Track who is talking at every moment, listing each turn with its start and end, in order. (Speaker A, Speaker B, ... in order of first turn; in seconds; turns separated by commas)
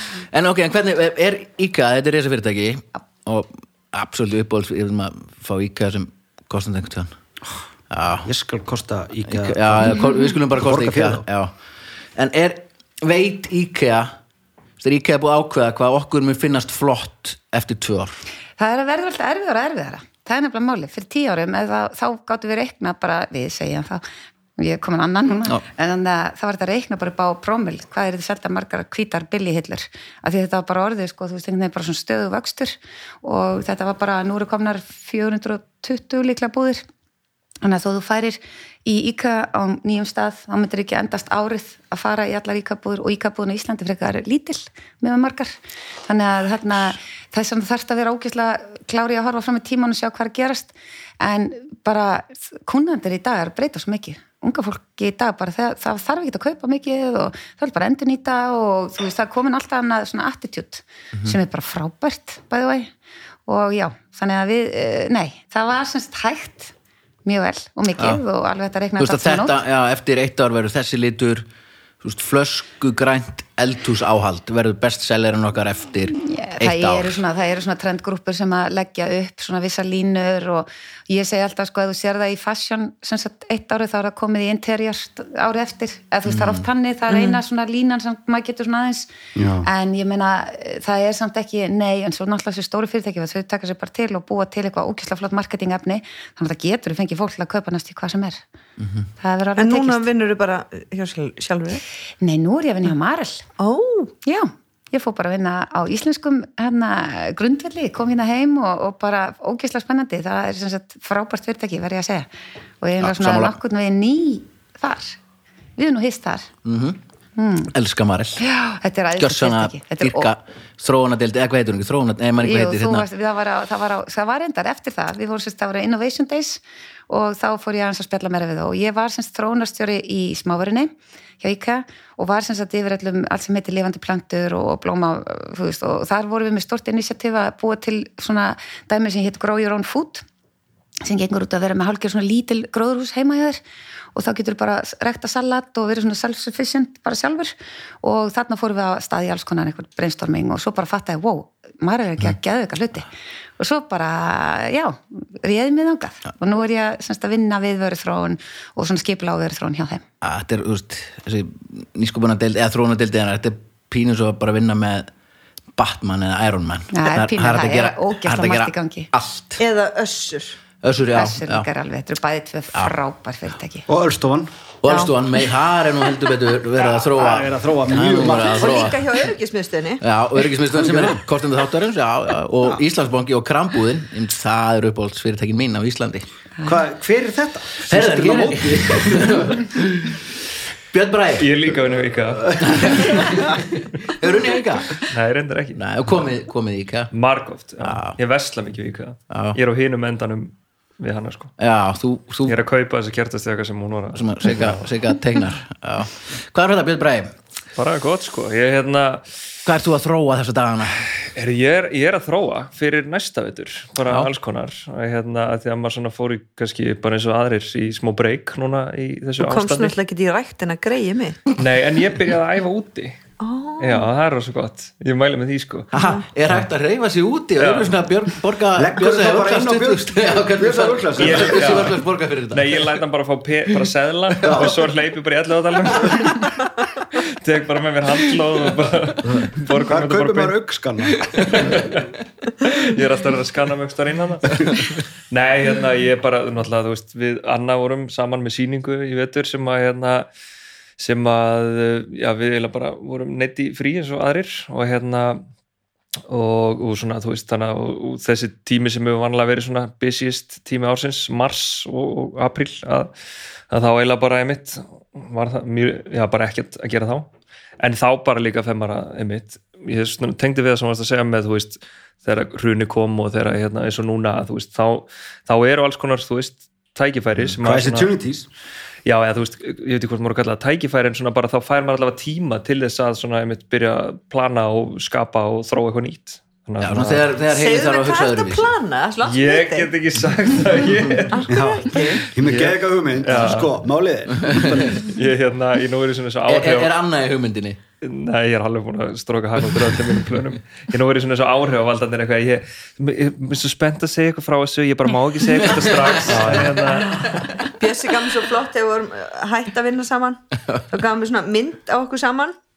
Speaker A: 0.3-7.1, Speaker A: 7.9-8.3, Speaker B: 8.2-11.2, Speaker A: 9.2-11.5, Speaker A: 12.2-14.1, Speaker A: 14.8-18.2, Speaker C: 18.6-24.0, Speaker C: 24.6-36.8, Speaker C: 37.6-62.9, Speaker C: 63.5-66.7, Speaker C: 67.2-69.6, Speaker A: 68.0-68.2, Speaker A: 69.0-71.5, Speaker A: 72.0-77.2, Speaker C: 76.1-89.1, Speaker A: 86.2-86.7, Speaker D: 87.1-87.4, Speaker B: 89.3-89.7, Speaker C: 89.6-98.4, Speaker A: 98.8-99.0, Speaker C: 99.2-100.0, Speaker D: 99.6-101.8, Speaker C: 102.2-103.4, Speaker D: 103.6-104.1, Speaker C: 104.2-112.3, Speaker C: 112.8-115.2, Speaker A: 113.0-113.5, Speaker C: 115.8-116.5, Speaker A: 116.6-117.0, Speaker C: 117.4-117.7, Speaker A: 117.7-118.4, Speaker C: 118.4-120.3, Speaker A: 119.2-123.1, Speaker C: 122.4-140.2, Speaker C: 141.0-143.6, Speaker C: 144.1-160.0, Speaker A: 160.2-165.1, Speaker A: 165.8-169.6, Speaker C: 166.9-169.1, Speaker D: 169.6-170.6, Speaker A: 170.8-171.7, Speaker C: 171.1-173.9, Speaker B: 173.9-174.5, Speaker A: 174.8-179.0, Speaker B: 177.1-178.8, Speaker D: 178.6-180.0, Speaker A: 180.0-186.2, Speaker B: 186.6-189.5, Speaker A: 187.8-190.2, Speaker A: 190.9-191.6, Speaker E: 191.4-193.5, Speaker A: 192.6-195.0, Speaker E: 195.1-195.8, Speaker A: 195.7-197.1, Speaker E: 197.1-201.5, Speaker A: 197.8-198.2, Speaker A: 199.3-199.6, Speaker A: 201.6-202.6, Speaker E: 202.4-204.8, Speaker A: 204.1-207.3, Speaker E: 207.8-209.3, Speaker A: 209.6-211.0, Speaker E: 211.2-219.9, Speaker D: 219.4-221.4, Speaker E: 221.6-223.2, Speaker D: 223.4-224.1, Speaker E: 223.8-225.9, Speaker A: 225.9-232.9, Speaker E: 227.6-228.0, Speaker B: 228.8-231.9, Speaker E: 231.2-240.6, Speaker B: 234.4-234.8, Speaker B: 239.8-241.3, Speaker A: 241.3-241.6, Speaker E: 241.4-242.1, Speaker E: 242.6-250.3, Speaker E: 251.0-255.4, Speaker E: 256.3-263.1, Speaker E: 263.7-267.3, Speaker E: 267.8-278.1, Speaker B: 277.6-278.5, Speaker E: 279.0-287.3, Speaker A: 286.8-288.7, Speaker D: 287.4-289.9, Speaker E: 289.2-291.5, Speaker D: 291.3-292.2, Speaker B: 291.5-295.1, Speaker E: 292.4-293.8, Speaker A: 294.4-295.0, Speaker E: 294.9-296.9, Speaker A: 296.5-297.8, Speaker E: 298.0-307.7, Speaker A: 306.2-306.8, Speaker D: 307.6-312.6